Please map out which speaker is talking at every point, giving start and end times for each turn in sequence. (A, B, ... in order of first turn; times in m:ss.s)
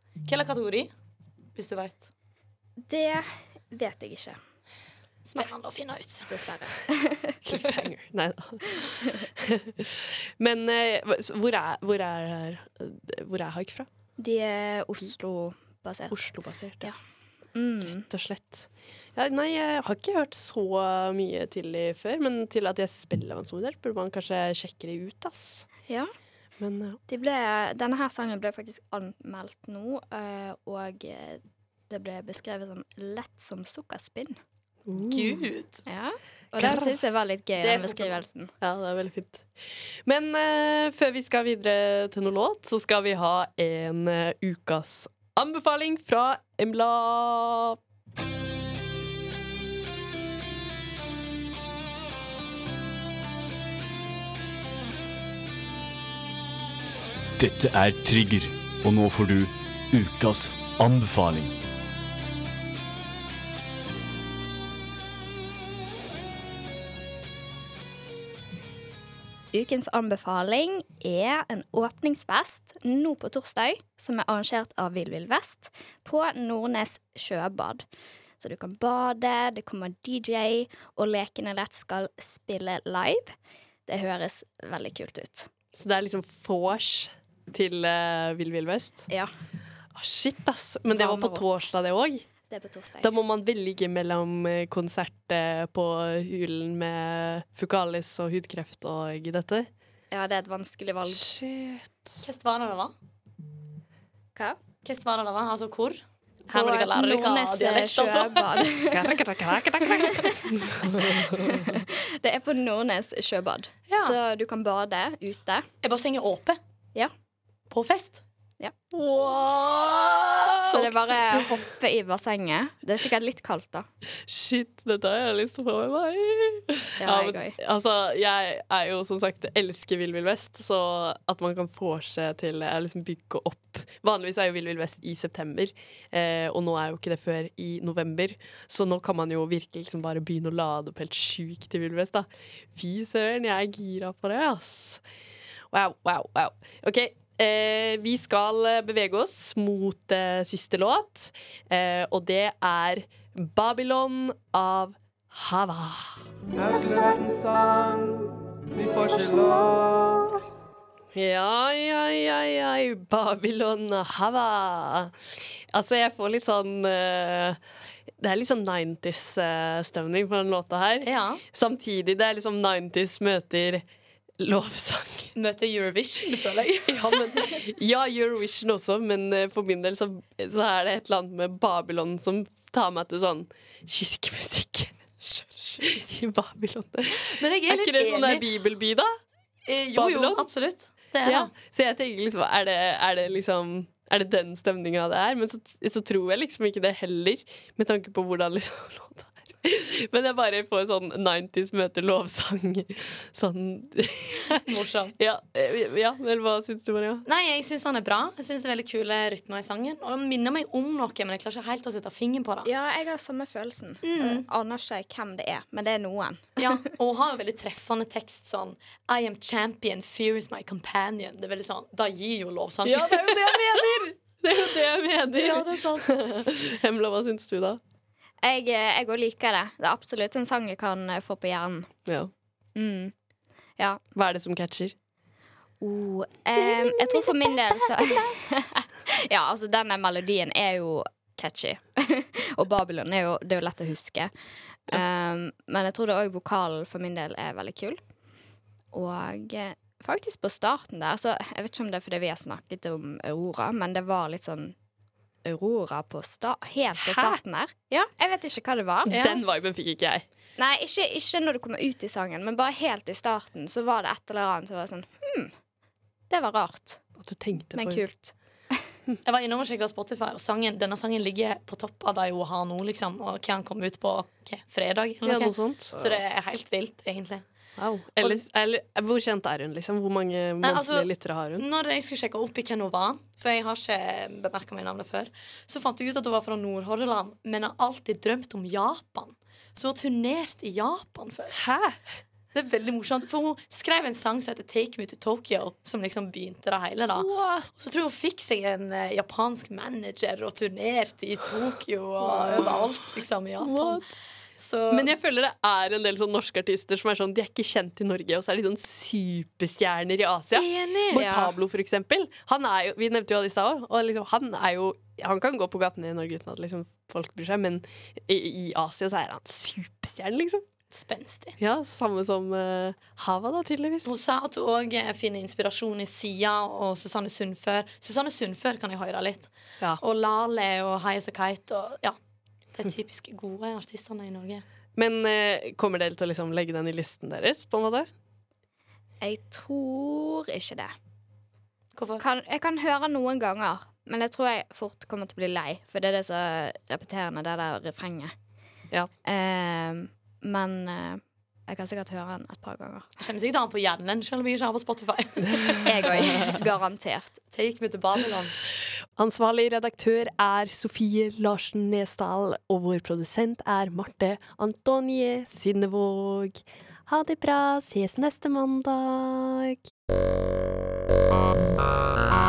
0:00.2-0:00.9 A
0:01.6-0:02.1 A
0:02.9-0:04.4 B
0:05.2-0:06.4 A
0:06.3-0:07.4 B
0:07.4-0:13.9 C
0:14.2-0:16.2 B
0:16.1-0:16.9 C
0:17.5-0:18.0 B
0:17.8-0:25.7 C
0:26.6-0:27.0 C
0:27.1-0:34.4 B
0:34.9-0:35.4 C
0:35.0-0:35.8 A
0:35.9-0:38.5 B
0:36.6-0:36.9 C
0:37.6-0:38.1 A
0:38.6-0:39.5 C
0:40.0-0:47.8 C
0:57.4-1:01.5 D
1:09.5-1:17.8 B
1:18.4-1:23.3 B
1:23.9-1:25.5 B
1:25.7-1:29.1 C
1:29.9-1:32.2 C
1:30.9-1:31.4 B
1:32.5-1:33.1 B
1:33.0-1:39.7 C
1:40.1-1:41.3 B
1:41.1-1:42.2 C
1:42.2-1:42.9 A
1:44.8-1:48.6 A
1:46.5-1:49.2 B
1:48.9-1:51.8 C
1:49.8-1:55.7 B
1:53.9-1:54.2 A
1:55.8-1:56.6 A
1:57.7-1:58.2 A
1:58.9-2:01.5 C
2:00.7-2:03.8 B
2:04.1-2:25.0 C
2:07.0-2:07.6 B
2:25.7-2:36.3 C
2:36.5-2:40.4 E
2:41.1-2:45.1 C
2:45.7-2:47.6 C
2:48.2-2:53.8 C
2:51.0-2:51.4 A
2:54.4-2:55.3 C
2:55.3-2:57.5 A
2:56.9-3:05.0 C
3:05.2-3:06.1 A
3:05.8-3:09.1 C
3:07.2-3:08.4 A
3:09.7-3:11.5 A
3:09.9-3:10.4 C
3:11.2-3:24.6 C
3:24.5-3:25.1 A
3:25.2-3:27.2 C
3:27.2-3:32.7 A
3:32.6-3:36.7 B
3:34.0-3:34.4 A
3:36.6-3:44.0 A
3:42.8-3:47.8 C
3:45.4-3:46.1 A
3:48.4-3:51.9 B
3:52.8-3:53.1 B
3:54.1-3:54.9 C
3:55.8-4:04.3 B
3:56.6-3:58.3 C
4:04.9-4:08.0 B
4:08.9-4:14.8 B
4:15.4-4:19.1 B
4:17.0-4:17.4 C
4:19.1-4:20.2 C
4:19.1-4:19.4 A
4:20.6-4:25.5 B
4:26.3-4:27.0 B
4:27.2-4:28.0 C
4:27.7-4:28.9 B
4:29.2-4:37.4 A
4:35.2-4:36.2 C
4:37.8-4:41.6 C
4:40.6-4:51.6 A
4:51.5-4:52.0 C
4:52.5-5:04.0 A
4:57.1-4:57.7 C
5:02.2-5:02.9 C
5:03.6-5:04.1 C
5:04.6-5:05.1 A
5:04.9-5:20.6 C
5:10.5-5:11.2 A
5:11.1-5:11.5 B
5:20.9-5:21.6 A
5:21.6-5:24.1 C
5:24.0-5:32.2 A
5:32.7-5:34.6 A
5:35.0-5:38.1 C
5:39.2-5:40.9 B
5:42.0-5:42.2 A
5:42.2-5:48.3 B
5:49.2-5:53.1 B
5:53.2-5:55.9 A
5:55.4-5:56.6 C
5:55.9-5:57.4 B
5:57.5-5:58.6 A
5:59.2-6:09.8 C